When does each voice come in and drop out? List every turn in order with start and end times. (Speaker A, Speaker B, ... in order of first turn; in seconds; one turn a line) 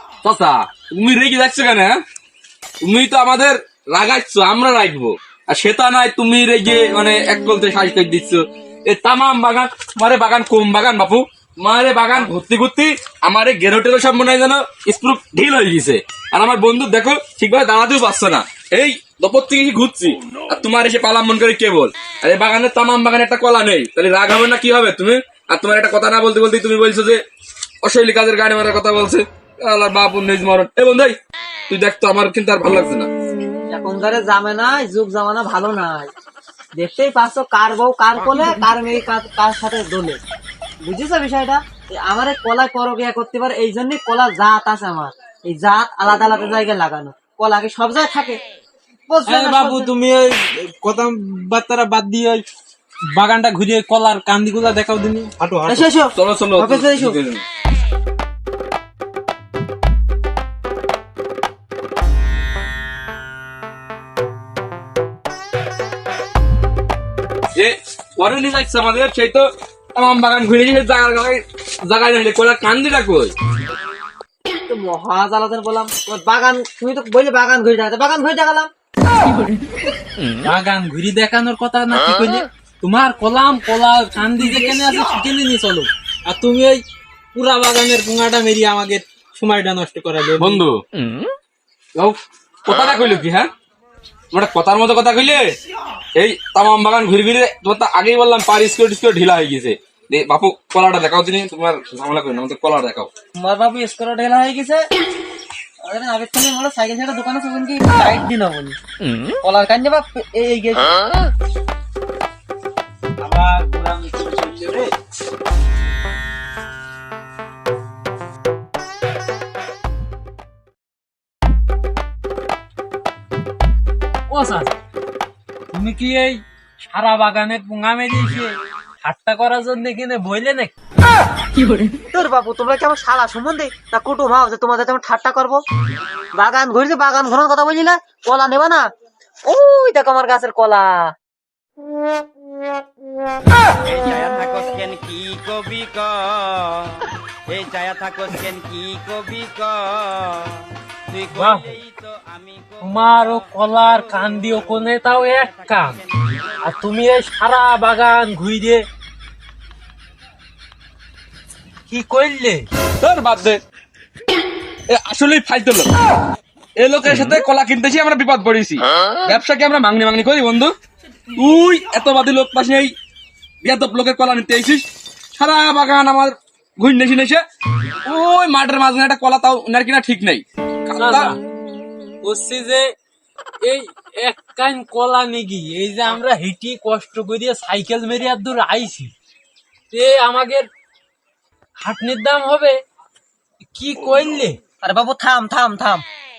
Speaker A: 0.2-2.0
Speaker A: 2.8-27.2
Speaker A: 27.8-31.2
Speaker A: 31.7-33.1
Speaker B: 33.7-36.1
Speaker B: 36.8-40.2
Speaker B: 40.8-48.4
Speaker B: 49.1-49.9
Speaker C: 49.3-52.4
Speaker C: 53.1-55.9
Speaker B: 55.7-57.2
Speaker A: 56.2-57.5
Speaker A: 67.5-73.3
Speaker B: 74.7-78.7
Speaker C: 80.4-86.8
Speaker C: 87.3-90.6
Speaker A: 90.4-90.8
Speaker A: 92.0-93.5
Speaker A: 94.3-95.5
Speaker A: 96.2-103.1
Speaker B: 103.4-104.8
Speaker B: 105.8-108.8
Speaker B: 109.4-111.0
Speaker C: 113.2-114.9
Speaker C: 124.3-124.8
Speaker C: 125.7-130.7
Speaker B: 132.1-135.6
Speaker B: 136.3-138.9
Speaker B: 139.5-141.1
Speaker D: 143.9-150.5
Speaker C: 151.2-151.8
Speaker D: 151.8-152.7
Speaker C: 152.8-156.0
Speaker C: 156.6-158.8
Speaker C: 161.9-162.7
Speaker A: 163.0-163.6
Speaker A: 164.9-165.9
Speaker A: 166.8-170.7
Speaker A: 171.3-172.9
Speaker A: 173.6-177.4
Speaker A: 178.1-181.3
Speaker C: 181.0-181.4
Speaker C: 182.2-182.9
Speaker C: 183.6-189.1
Speaker C: 189.9-190.7
Speaker C: 191.8-192.8
Speaker C: 193.7-194.6
Speaker B: 194.8-196.0